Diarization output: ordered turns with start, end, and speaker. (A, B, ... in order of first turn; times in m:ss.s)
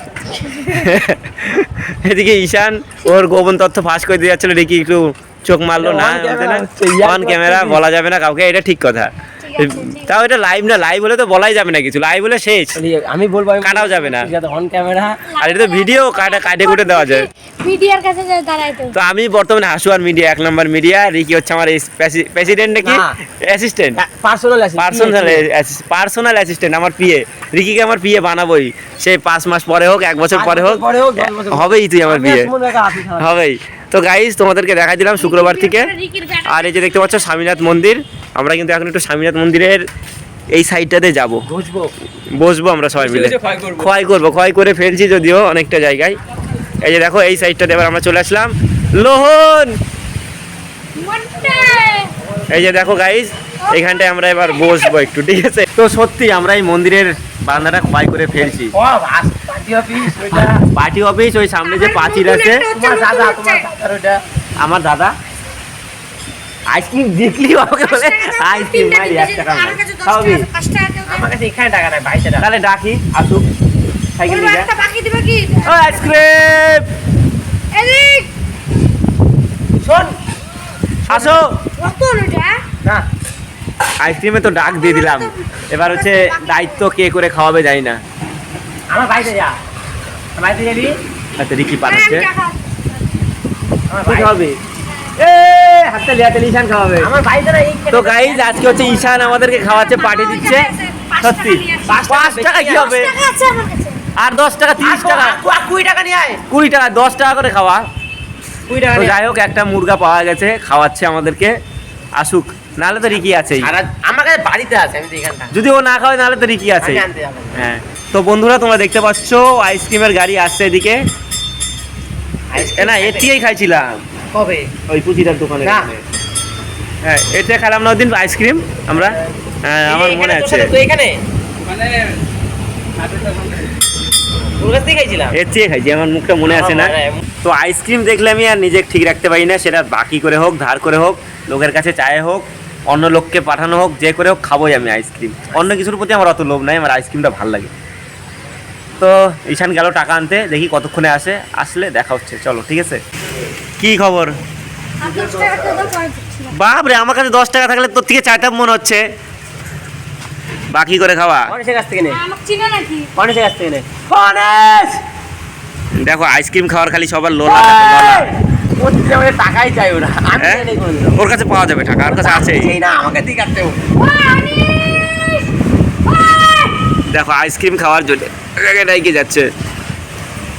0:00.4-0:00.9 A
0:00.6-0:12.8 B
0:05.8-0:07.8 C
0:09.4-0:10.1 A
0:12.8-0:15.3 C
0:13.6-0:14.3 B
0:15.3-0:19.0 A
0:15.4-0:17.3 B
0:18.9-0:24.0 B
0:22.8-0:23.2 C
0:24.0-0:25.5 C
0:24.8-0:32.5 B
0:30.3-0:33.3 C
0:33.2-0:35.9 B
0:35.2-0:36.8 A
0:36.4-0:39.8 B
0:40.5-0:41.4 B
0:41.5-0:41.9 C
0:42.4-0:46.2 B
0:43.0-0:43.9 C
0:46.8-0:49.8 B
0:51.0-0:52.1 A
0:52.5-0:58.8 B
0:53.6-0:54.9 A
0:58.4-1:00.6 C
1:00.2-1:02.7 B
1:01.6-1:03.7 A
1:02.7-1:04.2 C
1:04.6-1:05.1 B
1:06.7-1:10.5 B
1:07.7-1:11.3 A
1:11.1-1:12.5 C
1:12.4-1:13.5 B
1:14.2-1:14.7 B
1:14.2-1:16.1 A
1:15.6-1:16.9 B
1:17.7-1:18.3 A
1:19.8-1:20.2 C
1:21.1-1:21.4 C
1:21.1-1:21.6 B
1:21.8-1:22.6 A
1:24.0-1:28.0 B
1:24.6-1:26.8 A
1:28.9-1:29.6 C
1:30.4-1:31.0 C
1:31.4-1:32.3 B
1:31.8-1:32.6 A
1:33.9-1:34.4 C
1:34.0-1:34.6 B
1:35.2-1:37.1 B
1:37.0-1:39.2 C
1:37.9-1:43.1 B
1:39.2-1:42.0 A
1:41.8-1:42.7 C
1:42.5-1:44.0 A
1:44.2-1:45.4 B
1:44.8-1:46.4 C
1:46.5-1:47.8 B
1:48.7-1:49.2 C
1:48.9-1:51.6 B
1:52.2-1:53.7 B
1:53.4-1:55.6 C
1:55.5-1:57.0 B
1:56.8-1:57.6 C
1:57.6-2:01.0 B
2:02.5-2:03.3 C
2:02.7-2:03.9 B
2:04.3-2:04.7 C
2:04.9-2:06.0 B
2:05.6-2:05.9 C
2:07.0-2:10.7 B
2:09.8-2:11.8 C
2:13.0-2:13.5 C
2:14.6-2:15.4 C
2:15.3-2:27.7 B
2:16.5-2:17.2 C
2:29.0-2:33.0 B
2:33.8-2:34.3 B
2:35.0-2:36.5 A
2:36.5-2:39.0 B
2:40.7-2:41.5 B
2:41.5-2:42.2 C
2:42.1-2:43.1 A
2:43.2-2:45.0 C
2:46.0-2:48.3 B
2:47.4-2:51.2 C
2:50.4-2:52.8 B
2:52.1-2:53.9 C
2:54.0-2:55.4 A
2:56.1-2:56.6 A
2:57.1-2:59.5 B